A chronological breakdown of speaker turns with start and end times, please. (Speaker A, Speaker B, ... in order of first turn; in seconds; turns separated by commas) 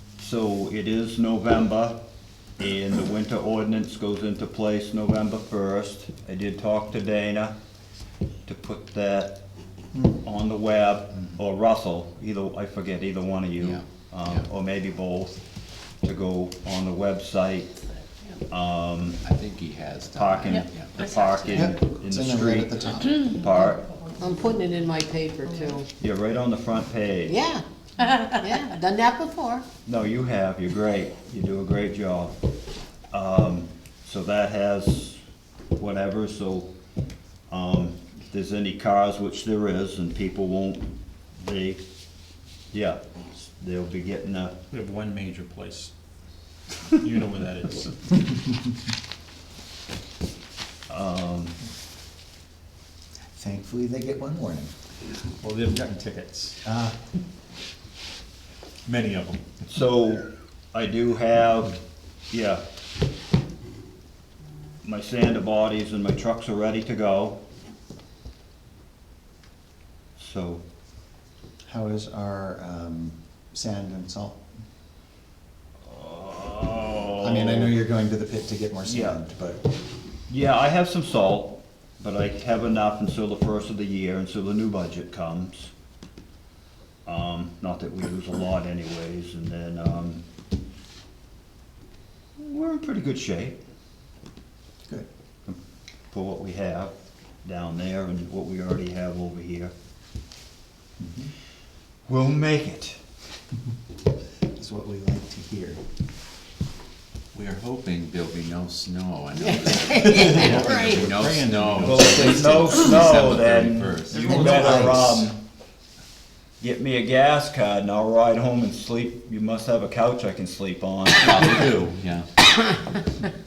Speaker A: 0.2-2.0, Speaker A: 2.6-7.5, Speaker A: 8.5-9.4, Speaker A: 10.2-15.4, Speaker B: 13.6-14.5, Speaker A: 16.0-17.7, Speaker A: 18.5-19.2, Speaker B: 19.2-21.7, Speaker A: 20.1-23.9, Speaker C: 21.5-23.3, Speaker D: 24.2-25.9, Speaker A: 26.0-27.4, Speaker D: 27.3-29.6, Speaker A: 29.9-32.3, Speaker A: 33.1-35.2, Speaker A: 35.8-36.7, Speaker A: 37.5-40.9, Speaker A: 41.4-41.8, Speaker A: 42.7-43.0, Speaker A: 43.6-44.5, Speaker E: 44.7-45.9, Speaker E: 46.9-48.2, Speaker A: 50.9-51.5, Speaker C: 53.4-54.7, Speaker E: 55.4-56.5, Speaker C: 56.5-57.0, Speaker E: 58.9-59.6, Speaker A: 59.7-61.8, Speaker A: 62.3-62.6, Speaker A: 64.8-67.4, Speaker A: 70.2-70.6, Speaker C: 71.7-74.4, Speaker A: 75.9-77.8, Speaker C: 77.2-79.6, Speaker A: 78.9-79.2, Speaker A: 80.3-85.7, Speaker A: 87.1-90.2, Speaker A: 92.4-93.6, Speaker A: 96.1-96.9, Speaker A: 97.4-99.7, Speaker C: 101.0-101.3, Speaker A: 102.1-103.0, Speaker C: 104.6-105.8, Speaker B: 107.3-115.2, Speaker D: 109.5-111.0, Speaker E: 110.0-112.1, Speaker A: 111.7-115.4, Speaker C: 114.2-114.8, Speaker A: 116.6-121.4, Speaker B: 121.2-122.3